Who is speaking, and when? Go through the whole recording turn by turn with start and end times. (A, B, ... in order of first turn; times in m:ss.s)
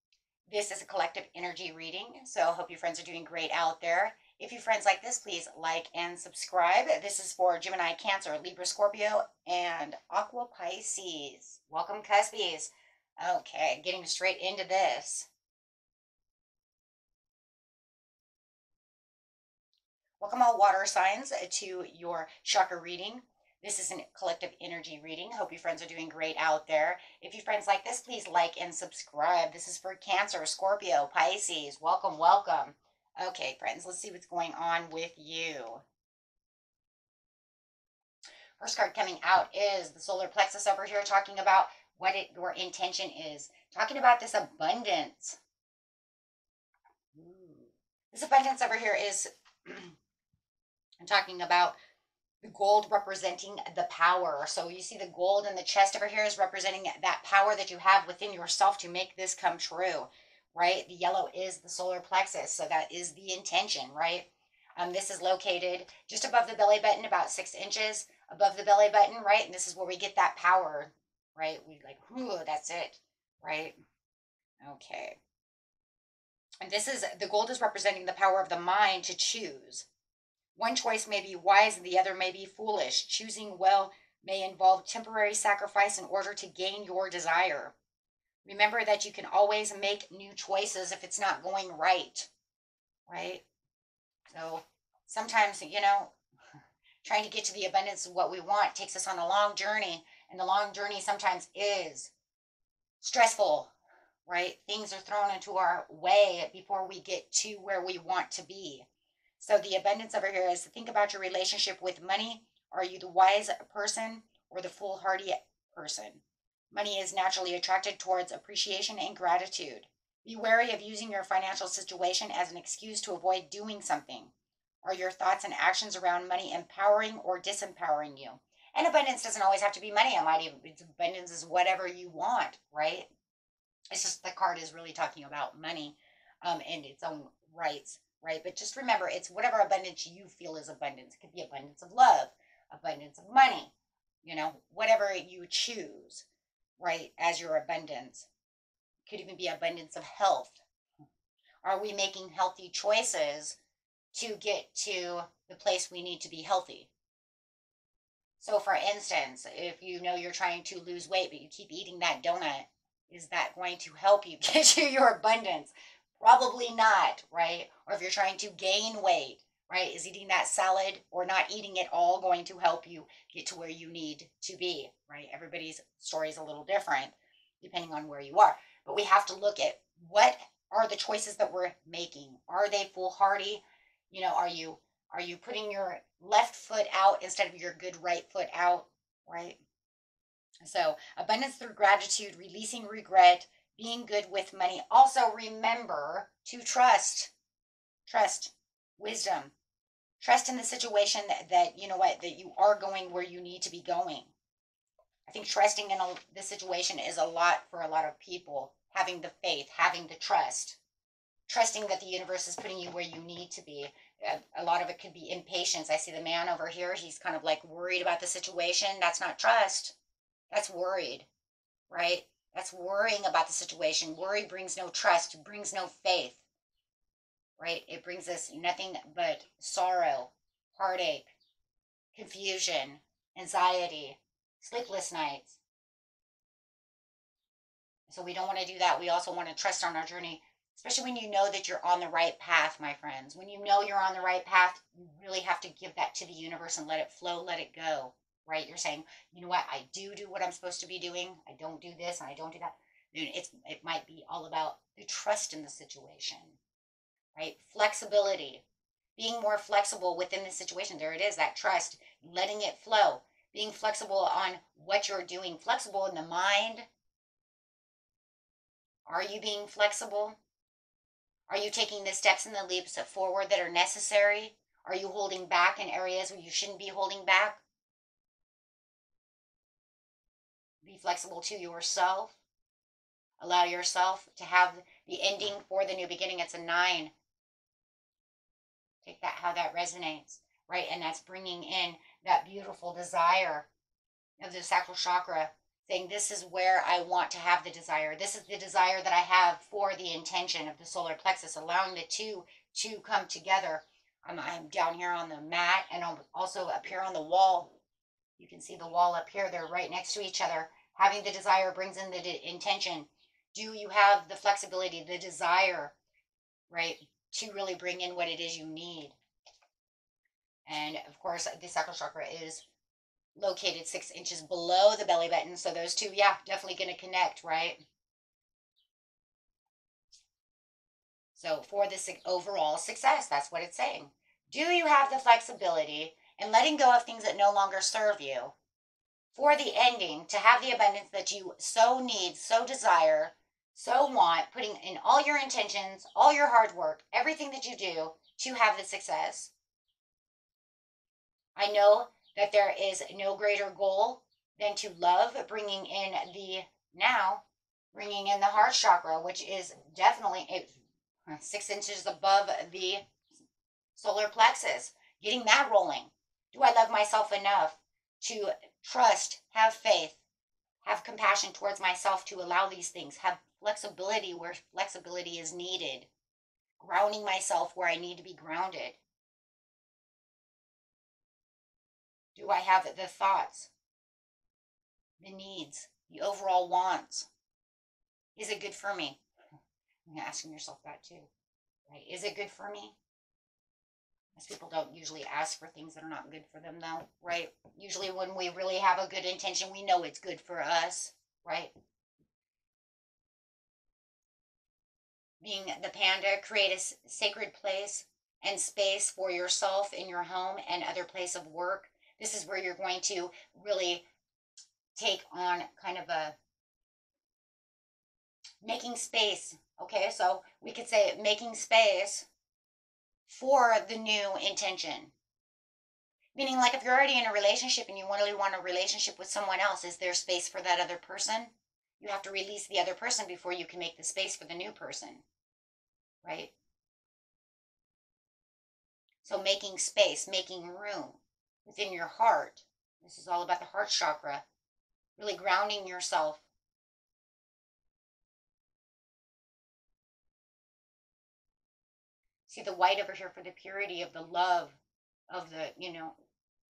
0:00.5-0:15.3 A
0:20.2-0:35.8 A
0:38.6-0:45.4 A
0:47.2-0:50.0 A
0:51.0-0:51.8 A
0:52.4-1:13.8 A
1:14.6-1:15.2 A
1:16.6-1:19.9 A
1:20.6-1:27.7 A
1:28.4-1:32.3 A
1:33.1-1:33.4 A
1:34.3-1:36.1 A
1:37.0-1:42.1 A
1:43.0-1:43.7 A
1:44.2-1:48.9 A
1:49.4-2:04.3 A
2:04.8-2:13.1 A
2:13.9-2:23.7 A
2:24.2-2:26.2 A
2:26.8-2:28.3 A
2:29.1-2:30.6 A
2:31.6-2:33.6 A
2:34.1-2:36.9 A
2:38.4-3:09.6 A
3:10.6-3:17.3 A
3:18.1-3:19.5 A
3:20.2-3:24.3 A
3:25.3-3:30.8 A
3:31.5-3:40.0 A
3:40.5-3:41.3 A
3:41.9-3:46.4 A
3:47.6-3:51.3 A
3:52.1-3:55.6 A
3:58.1-4:16.6 A
4:17.3-4:18.6 A
4:19.2-4:26.9 A
4:29.1-4:30.4 A
4:31.5-4:37.6 A
4:40.8-4:42.4 A
4:43.4-4:47.1 A
4:49.0-4:53.7 A
4:54.4-5:07.7 A
5:08.4-5:15.9 A
5:16.7-5:19.2 A
5:20.7-5:22.6 A
5:23.3-5:27.8 A
5:31.3-5:38.5 A
5:39.3-5:49.5 A
5:51.6-6:00.8 A
6:01.3-6:03.1 A
6:03.9-6:10.2 A
6:10.8-6:16.1 A
6:16.8-6:19.0 A
6:22.4-6:23.7 A
6:25.2-6:27.3 A
6:28.4-6:29.2 A
6:30.1-6:31.3 A
6:31.9-6:33.0 A
6:34.4-6:41.7 A
6:45.4-6:54.0 A
6:54.9-6:56.3 A
6:58.6-7:02.3 A
7:03.3-7:05.1 A
7:06.3-7:15.2 A
7:16.2-7:16.5 A
7:19.2-7:24.4 A
7:25.2-7:26.4 A
7:32.4-7:34.8 A
7:35.3-7:36.1 A